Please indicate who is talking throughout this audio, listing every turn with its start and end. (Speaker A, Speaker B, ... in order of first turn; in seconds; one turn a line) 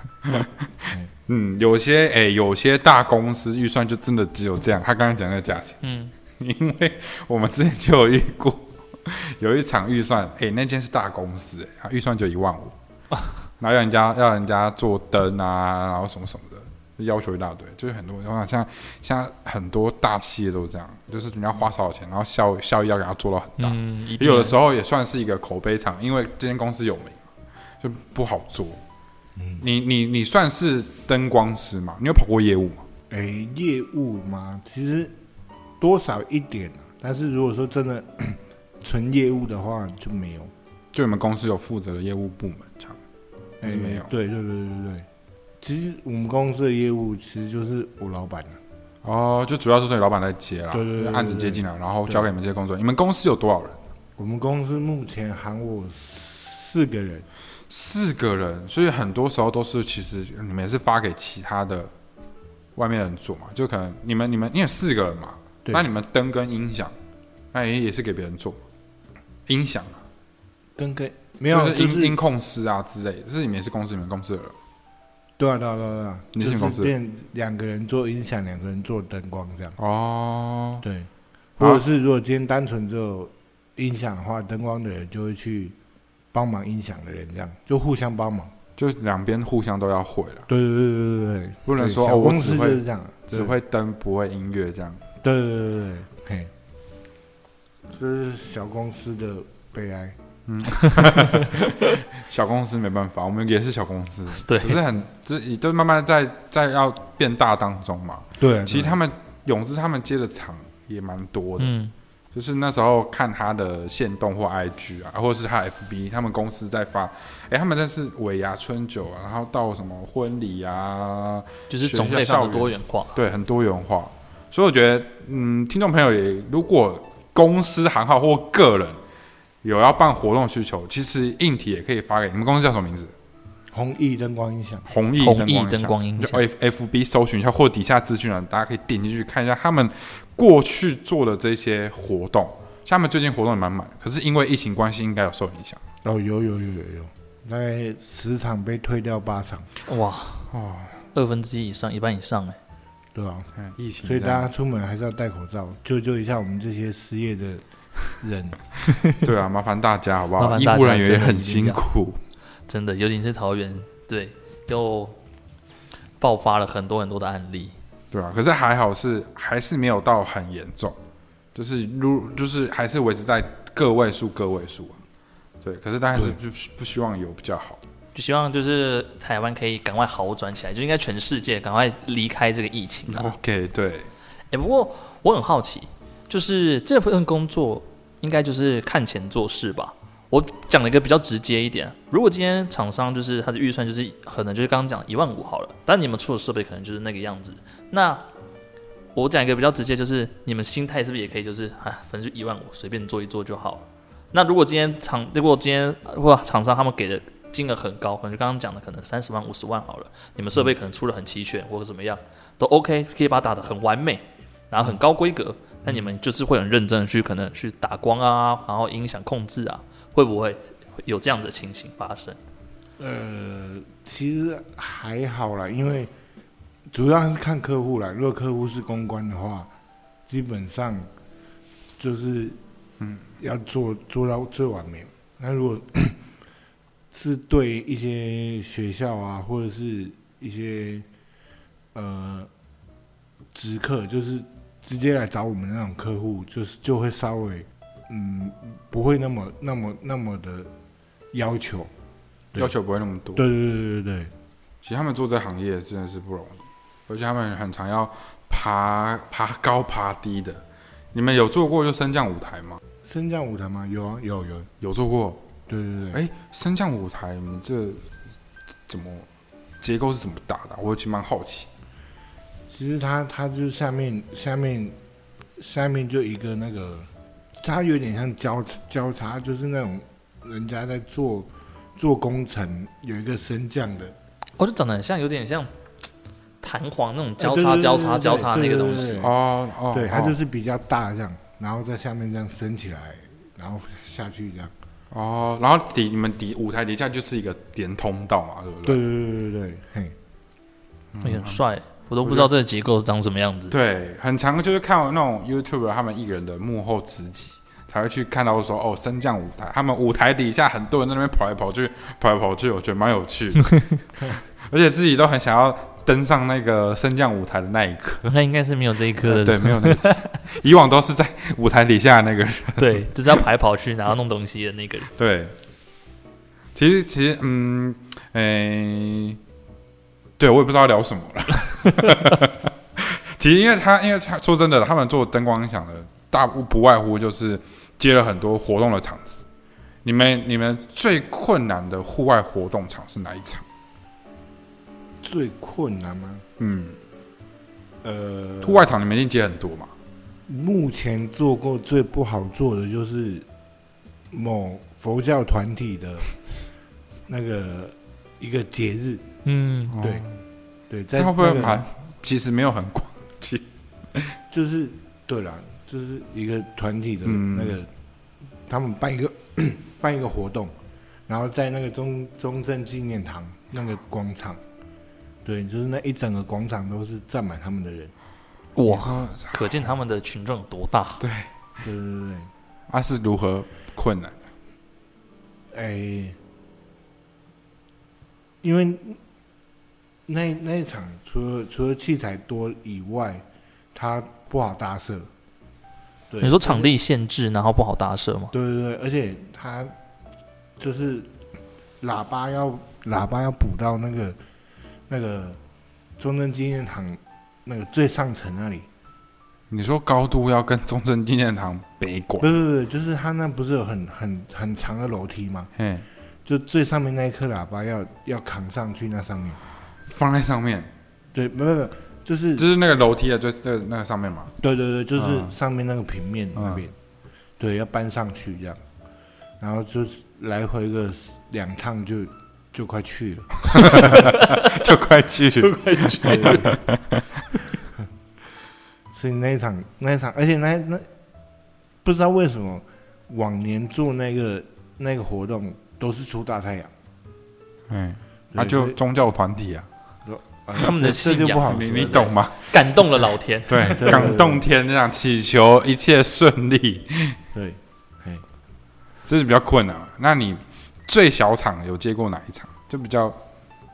Speaker A: 0.2-5.8
Speaker B: 5.8-6.1
Speaker A: 6.4-12.8
Speaker A: 13.6-27.2
Speaker B: 23.6-24.6
Speaker A: 27.8-28.8
Speaker C: 29.4-29.6
Speaker A: 29.6-32.9
Speaker C: 33.1-35.1
Speaker C: 35.8-40.5
Speaker A: 40.9-43.0
Speaker C: 43.6-45.1
Speaker A: 43.6-44.1
Speaker C: 45.6-48.6
Speaker A: 49.0-53.8
Speaker C: 50.7-52.3
Speaker C: 54.2-57.3
Speaker A: 57.7-61.9
Speaker A: 62.8-66.9
Speaker A: 67.5-68.6
Speaker A: 69.5-70.0
Speaker C: 70.8-72.2
Speaker A: 71.5-74.6
Speaker C: 75.4-79.8
Speaker A: 76.3-76.9
Speaker A: 79.8-80.8
Speaker C: 80.8-85.8
Speaker C: 86.3-88.5
Speaker A: 88.8-90.5
Speaker C: 90.5-93.5
Speaker A: 91.7-95.0
Speaker C: 95.2-96.5
Speaker C: 97.9-100.2
Speaker A: 100.5-111.7
Speaker B: 100.8-101.9
Speaker B: 104.3-104.8
Speaker C: 108.4-109.0
Speaker B: 111.6-111.9
Speaker A: 112.3-129.0
Speaker B: 121.7-123.2
Speaker A: 129.6-133.1
Speaker C: 133.7-134.8
Speaker A: 134.9-145.8
Speaker B: 135.2-136.4
Speaker C: 146.0-149.7
Speaker B: 149.9-150.5
Speaker A: 150.5-151.0
Speaker B: 151.1-152.6
Speaker C: 153.2-153.5
Speaker A: 153.6-154.5
Speaker C: 154.0-158.6
Speaker B: 158.9-159.2
Speaker A: 159.2-162.2
Speaker B: 160.4-161.8
Speaker B: 162.7-165.2
Speaker B: 166.2-167.7
Speaker A: 168.1-171.0
Speaker A: 171.6-175.0
Speaker A: 175.6-177.8
Speaker B: 178.1-183.3
Speaker A: 183.1-184.1
Speaker B: 184.5-198.3
Speaker B: 199.2-222.4
Speaker C: 223.0-226.1
Speaker C: 226.9-229.7
Speaker C: 230.3-231.1
Speaker C: 232.0-232.6
Speaker C: 233.4-236.2
Speaker C: 237.1-241.1
Speaker C: 241.9-242.5
Speaker C: 243.5-250.7
Speaker C: 251.3-251.9
Speaker A: 252.6-253.4
Speaker C: 253.3-254.3
Speaker A: 254.8-262.8
Speaker C: 263.0-264.7
Speaker A: 264.8-265.4
Speaker C: 265.7-266.2
Speaker A: 266.1-268.1
Speaker A: 268.9-269.3
Speaker A: 269.8-271.7
Speaker C: 272.7-275.0
Speaker C: 275.6-277.1
Speaker C: 277.6-284.1
Speaker B: 284.6-285.7
Speaker B: 286.6-289.3
Speaker C: 287.4-289.4
Speaker A: 289.2-290.4
Speaker C: 289.9-294.7
Speaker A: 295.1-299.0
Speaker C: 298.9-300.1
Speaker A: 301.1-301.6
Speaker B: 301.2-303.7
Speaker A: 302.2-302.5
Speaker A: 303.7-313.7
Speaker B: 313.7-314.0
Speaker A: 314.7-318.3
Speaker B: 318.3-320.3
Speaker A: 319.2-323.4
Speaker B: 322.8-325.1
Speaker A: 325.1-325.5
Speaker A: 326.8-329.4
Speaker A: 330.4-339.5
Speaker A: 340.0-343.6
Speaker C: 345.2-346.4
Speaker A: 346.6-347.0
Speaker C: 348.0-348.9
Speaker A: 348.6-349.9
Speaker C: 350.5-353.5
Speaker C: 354.3-356.3
Speaker C: 357.3-359.3
Speaker B: 359.4-360.0
Speaker A: 359.9-360.3
Speaker C: 360.0-360.3
Speaker C: 360.9-361.9
Speaker A: 361.1-364.4
Speaker C: 364.5-367.9
Speaker A: 367.2-367.8
Speaker C: 368.7-370.7
Speaker C: 371.3-374.6
Speaker C: 375.4-378.1
Speaker B: 378.8-381.2
Speaker A: 378.9-379.9
Speaker A: 381.2-381.5
Speaker C: 381.8-382.5
Speaker A: 382.9-384.4
Speaker C: 385.7-386.4
Speaker C: 388.6-389.2
Speaker C: 390.3-393.4
Speaker C: 393.9-395.3
Speaker C: 396.3-396.9
Speaker B: 396.4-398.5
Speaker C: 398.5-399.9
Speaker C: 400.8-401.3
Speaker C: 402.0-404.4
Speaker C: 405.1-405.6
Speaker C: 406.2-408.9
Speaker A: 409.7-412.5
Speaker C: 412.4-415.7
Speaker A: 415.8-416.1
Speaker C: 416.5-419.6
Speaker A: 420.1-420.9
Speaker C: 421.3-422.7
Speaker A: 422.6-424.5
Speaker C: 424.6-426.9
Speaker A: 425.1-425.5
Speaker A: 426.6-426.8
Speaker C: 427.6-428.8
Speaker C: 429.6-434.2
Speaker A: 433.7-437.4
Speaker B: 433.9-434.8
Speaker B: 435.6-436.8
Speaker C: 436.2-436.8
Speaker C: 439.1-441.1
Speaker C: 442.0-446.9
Speaker A: 447.9-449.9
Speaker C: 448.5-449.0
Speaker C: 450.2-452.3
Speaker B: 450.8-454.2
Speaker A: 451.6-452.8
Speaker A: 453.7-457.4
Speaker C: 453.8-454.6
Speaker C: 457.5-458.4
Speaker A: 459.3-463.4